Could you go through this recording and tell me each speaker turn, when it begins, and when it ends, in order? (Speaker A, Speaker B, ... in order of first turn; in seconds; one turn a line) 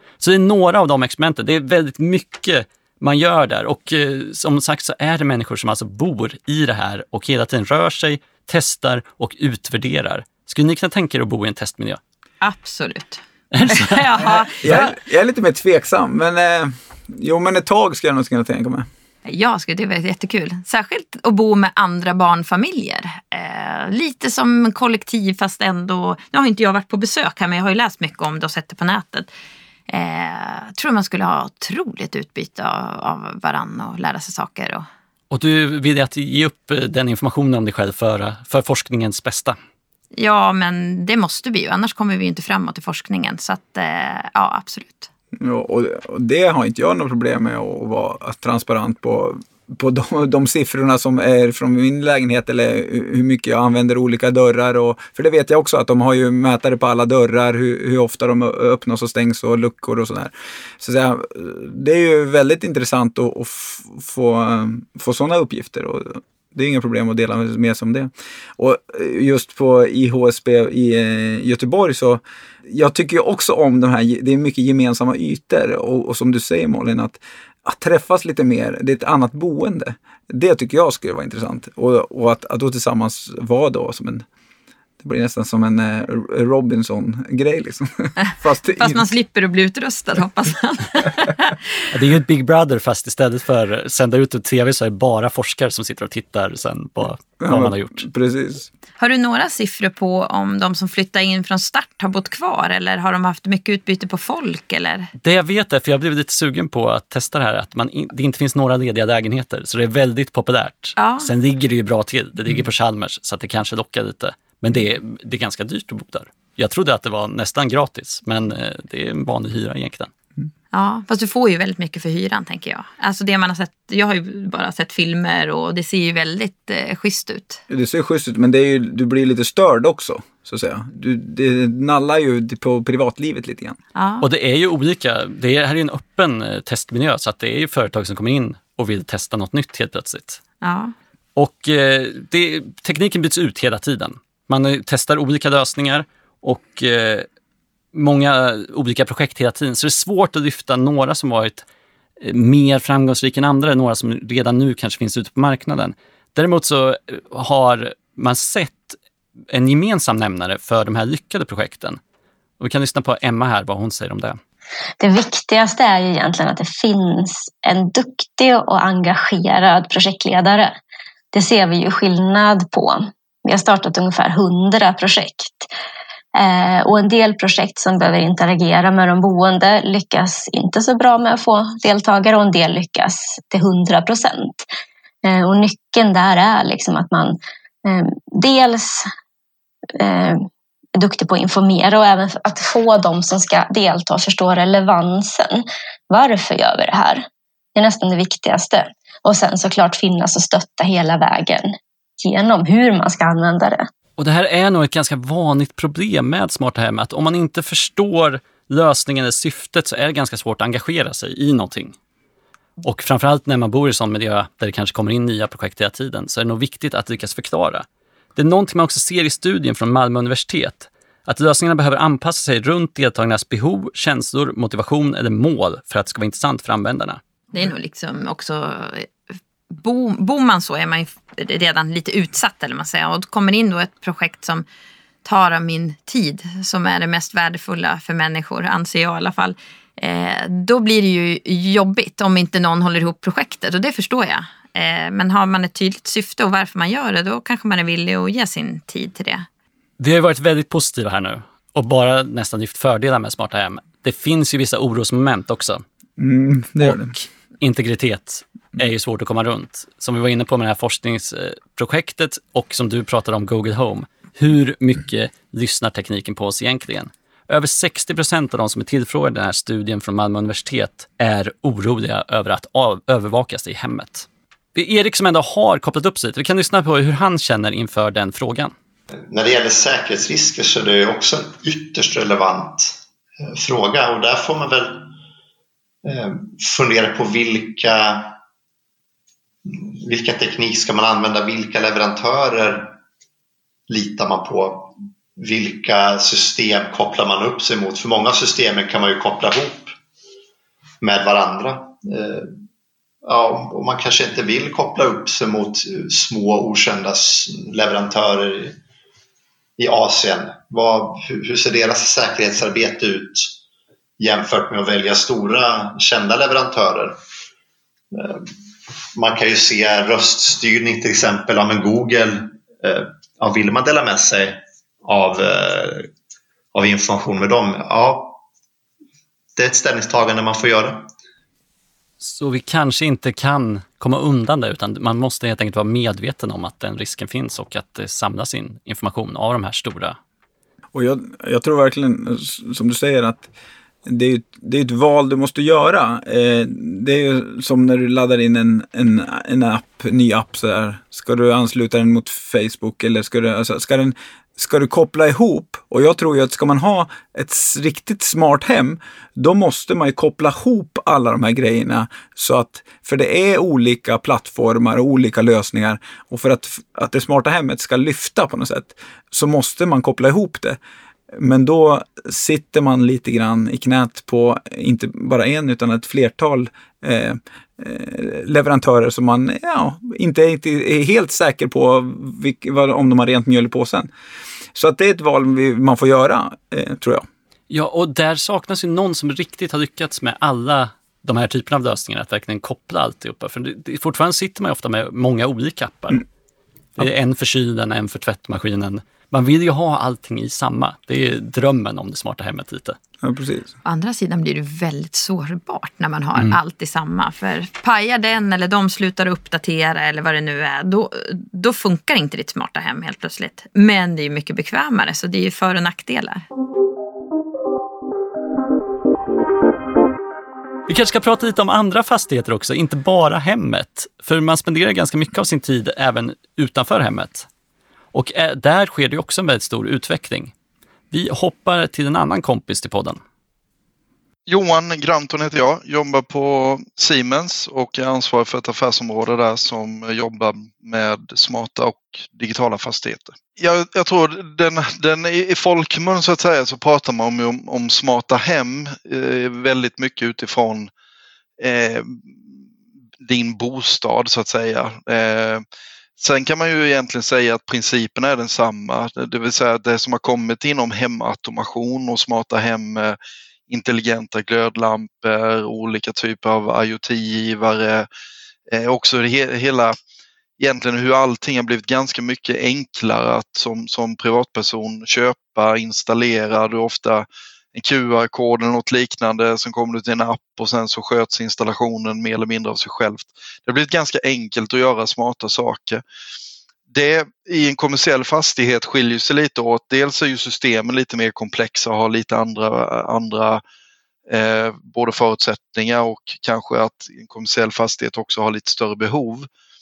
Speaker A: 0.2-12.0
Speaker B: 12.4-14.9
Speaker A: 13.5-14.1
Speaker C: 14.6-18.9
Speaker B: 19.3-29.3
Speaker B: 29.9-34.9
Speaker A: 35.3-39.6
Speaker B: 40.1-45.1
Speaker C: 45.4-84.3
Speaker C: 85.0-89.1
Speaker B: 88.8-91.6
Speaker A: 91.9-98.0
Speaker C: 97.4-98.7
Speaker B: 99.0-105.1
Speaker A: 105.2-120.1
Speaker B: 111.0-111.3
Speaker B: 120.7-127.6
Speaker C: 127.7-133.8
Speaker B: 133.9-134.3
Speaker A: 134.2-140.4
Speaker B: 140.6-140.9
Speaker A: 141.4-147.3
Speaker A: 147.9-151.7
Speaker A: 152.2-159.0
Speaker A: 159.5-162.0
Speaker A: 162.6-164.4
Speaker D: 165.0-170.8
Speaker D: 171.3-175.7
Speaker D: 176.3-184.7
Speaker D: 185.2-189.1
Speaker D: 190.0-203.9
Speaker A: 204.2-211.9
Speaker A: 212.8-217.8
Speaker A: 218.4-227.2
Speaker B: 227.5-229.1
Speaker B: 229.7-234.6
Speaker B: 235.2-249.4
Speaker A: 250.0-255.8
Speaker C: 256.2-257.1
Speaker A: 256.8-278.7
Speaker E: 279.3-285.1
Speaker E: 286.0-288.3
Speaker E: 289.6-293.0
Speaker E: 293.9-299.9
Speaker E: 301.0-302.5
Speaker E: 303.2-308.8
Speaker E: 309.8-313.5
Speaker E: 314.2-317.2
Speaker E: 318.1-318.4
Speaker E: 319.1-326.1
Speaker E: 326.7-328.4
Speaker E: 329.6-331.1
Speaker A: 332.2-340.2
Speaker C: 340.9-343.5
Speaker C: 344.1-370.8
Speaker C: 371.3-384.1
Speaker C: 384.7-387.3
Speaker A: 387.7-396.2
Speaker A: 397.0-403.0
Speaker C: 403.2-403.7
Speaker B: 403.9-416.4
Speaker A: 420.9-427.5
Speaker A: 428.1-430.5
Speaker A: 431.1-433.2
Speaker F: 434.5-450.9
Speaker F: 451.6-452.2
Speaker F: 453.2-455.6
Speaker F: 456.2-463.2
Speaker F: 463.7-468.1
Speaker F: 468.7-469.9
Speaker F: 470.6-486.0
Speaker F: 486.9-493.6
Speaker F: 494.3-499.5